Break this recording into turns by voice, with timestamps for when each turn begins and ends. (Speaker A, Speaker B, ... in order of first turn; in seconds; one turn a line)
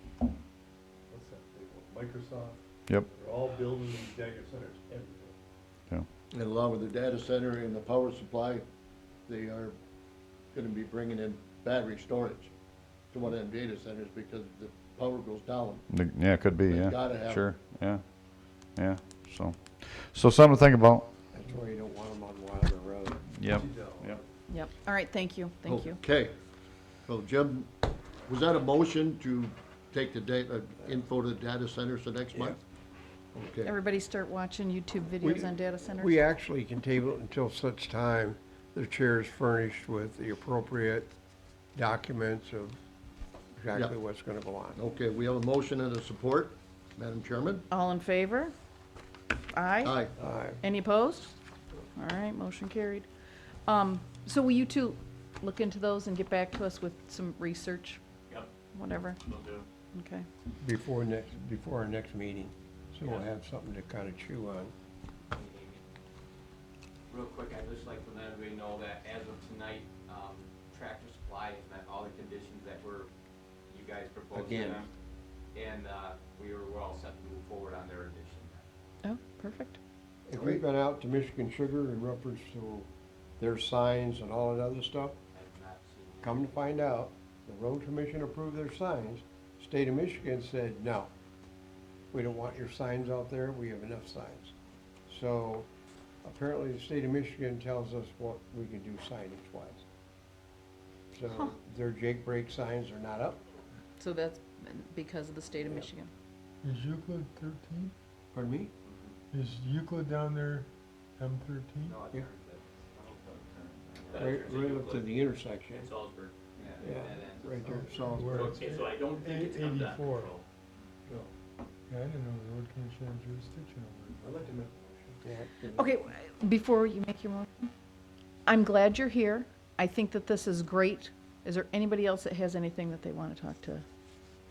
Speaker A: 1.1-5.4
Speaker B: 6.3-8.6
Speaker B: 9.3-9.8
Speaker B: 10.5-12.5
Speaker B: 13.1-15.8
Speaker C: 15.9-21.1
Speaker B: 16.7-17.4
Speaker D: 21.3-23.2
Speaker C: 23.3-24.2
Speaker A: 23.5-24.3
Speaker E: 24.5-26.0
Speaker B: 25.6-26.4
Speaker B: 27.0-32.6
Speaker B: 33.3-33.7
Speaker E: 33.6-36.2
Speaker D: 35.2-41.1
Speaker D: 41.7-42.8
Speaker D: 43.6-44.8
Speaker B: 44.7-47.6
Speaker E: 47.7-48.5
Speaker E: 49.5-50.0
Speaker B: 49.8-50.1
Speaker D: 50.2-50.6
Speaker E: 50.6-51.4
Speaker E: 52.0-53.1
Speaker E: 53.7-58.0
Speaker F: 58.3-58.5
Speaker E: 58.7-59.2
Speaker F: 59.2-59.7
Speaker E: 59.9-60.3
Speaker D: 60.6-64.7
Speaker G: 65.3-65.8
Speaker G: 67.1-73.1
Speaker G: 73.7-74.9
Speaker D: 74.3-74.8
Speaker G: 75.5-78.6
Speaker E: 79.0-79.8
Speaker D: 80.3-85.2
Speaker G: 85.3-86.8
Speaker D: 86.2-91.1
Speaker D: 92.1-94.5
Speaker D: 95.1-95.7
Speaker D: 96.2-99.8
Speaker D: 101.1-103.4
Speaker E: 104.0-106.1
Speaker H: 106.6-107.9
Speaker D: 108.3-108.7
Speaker G: 108.8-109.1
Speaker H: 109.3-112.0
Speaker G: 111.8-115.0
Speaker F: 114.1-114.6
Speaker D: 114.1-115.9
Speaker F: 115.8-116.3
Speaker G: 116.5-117.9
Speaker D: 116.7-118.6
Speaker H: 118.1-120.3
Speaker F: 118.2-120.4
Speaker H: 121.9-124.2
Speaker A: 124.2-125.2
Speaker D: 125.2-125.9
Speaker E: 125.7-127.7
Speaker E: 128.4-133.8